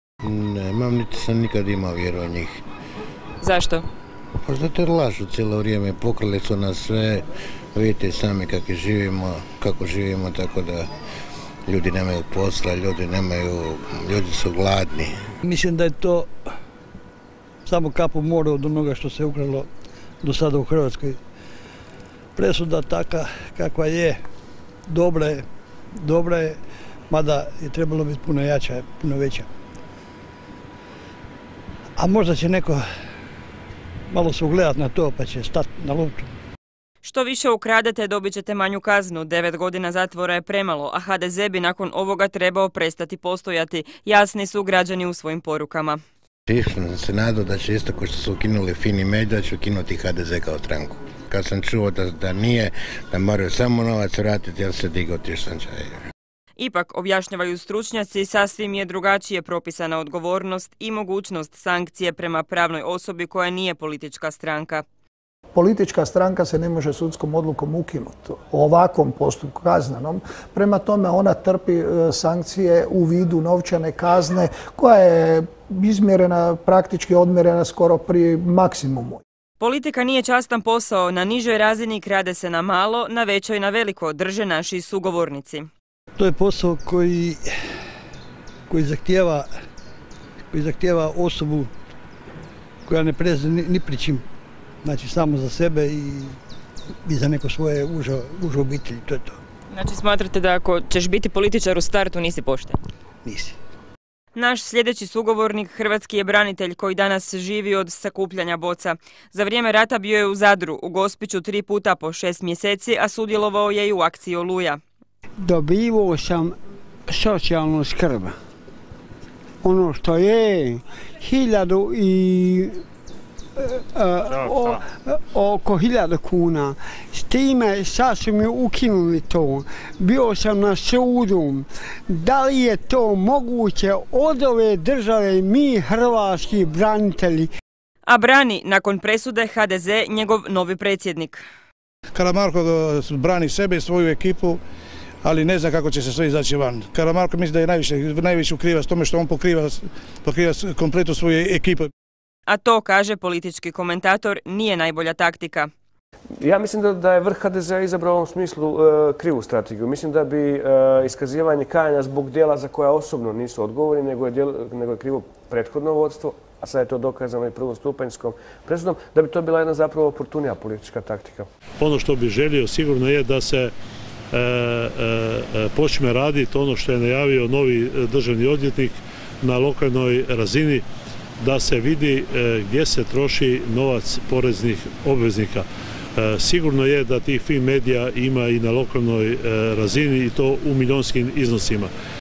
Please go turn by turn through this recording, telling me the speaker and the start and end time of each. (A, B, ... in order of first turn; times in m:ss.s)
0:00.2-0:02.6 A
0:04.4-0:10.9 A
0:11.7-0:15.1 A
0:15.4-0:16.3 B
0:17.7-0:19.7 B
0:20.2-0:21.2 B
0:22.4-0:24.2 B
0:24.9-0:25.5 B
0:26.0-0:26.6 B
0:27.1-0:29.5 B
0:32.0-0:32.8 B
0:34.1-0:36.3 B
0:37.0-0:46.0 C
0:46.5-0:56.0 A
0:56.6-1:04.8 C
1:05.6-1:19.2 D
1:19.6-1:25.7 C
1:26.2-1:27.4 B
1:28.7-1:29.5 B
1:30.5-1:31.7 B
1:32.9-1:34.2 B
1:34.8-1:36.4 B
1:37.0-1:39.4 B
1:43.2-1:43.6 B
1:44.4-1:54.8 C
1:55.4-1:56.5 E
1:57.1-1:58.4 E
1:59.6-2:02.8 E
2:03.6-2:17.5 E
2:18.1-2:21.4 C
2:22.1-2:24.6 F
2:25.2-2:31.9 F
2:32.5-2:35.7 C
2:36.4-2:51.5 G
2:51.8-2:53.7 H
2:54.3-3:00.8 H
3:01.4-3:11.9 H